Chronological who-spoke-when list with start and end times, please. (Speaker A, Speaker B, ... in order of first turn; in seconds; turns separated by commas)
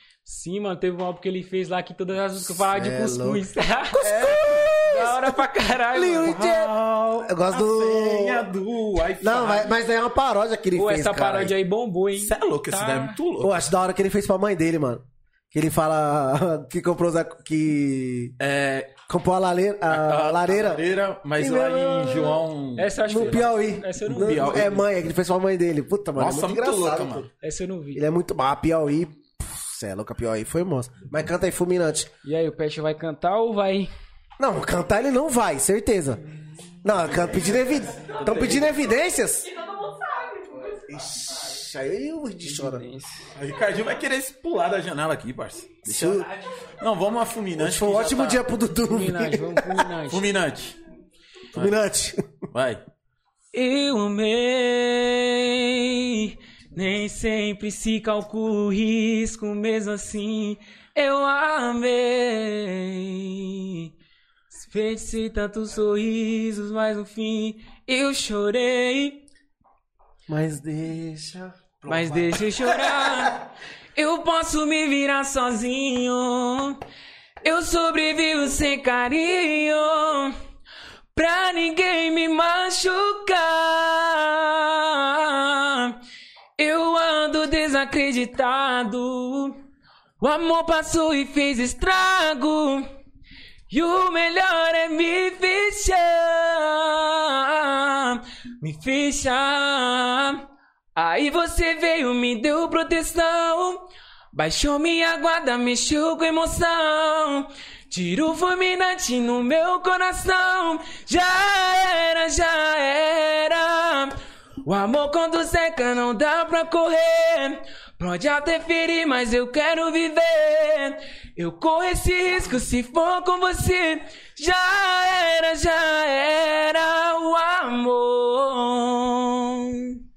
Speaker A: 0.2-4.1, Speaker B: 2.4-5.4, Speaker C: 4.0-4.7, Speaker A: 4.8-6.4, Speaker B: 5.9-8.5, Speaker C: 6.3-9.7, Speaker B: 9.2-11.5, Speaker A: 10.8-13.2, Speaker C: 12.2-13.6, Speaker B: 13.4-18.4, Speaker C: 18.4-19.0, Speaker B: 19.1-20.9, Speaker C: 19.9-23.5, Speaker B: 21.4-22.4, Speaker A: 22.8-24.7, Speaker B: 23.1-27.3, Speaker C: 24.0-24.9, Speaker C: 26.2-27.3, Speaker A: 27.4-28.0, Speaker B: 27.9-32.1, Speaker A: 32.2-33.9, Speaker B: 34.4-36.2, Speaker B: 36.8-39.5, Speaker C: 37.0-38.8, Speaker B: 40.8-42.9, Speaker A: 42.4-43.3, Speaker C: 43.4-48.5, Speaker B: 45.8-46.3, Speaker B: 47.6-49.9, Speaker A: 48.8-50.3, Speaker C: 50.1-50.8, Speaker B: 51.5-52.2, Speaker C: 52.5-52.8, Speaker A: 53.5-63.9, Speaker A: 64.5-69.2, Speaker B: 70.3-73.2, Speaker A: 71.9-76.8, Speaker A: 77.4-80.3, Speaker A: 81.2-86.0, Speaker A: 86.6-89.6, Speaker A: 90.2-92.9, Speaker A: 93.7-100.5, Speaker A: 101.0-130.0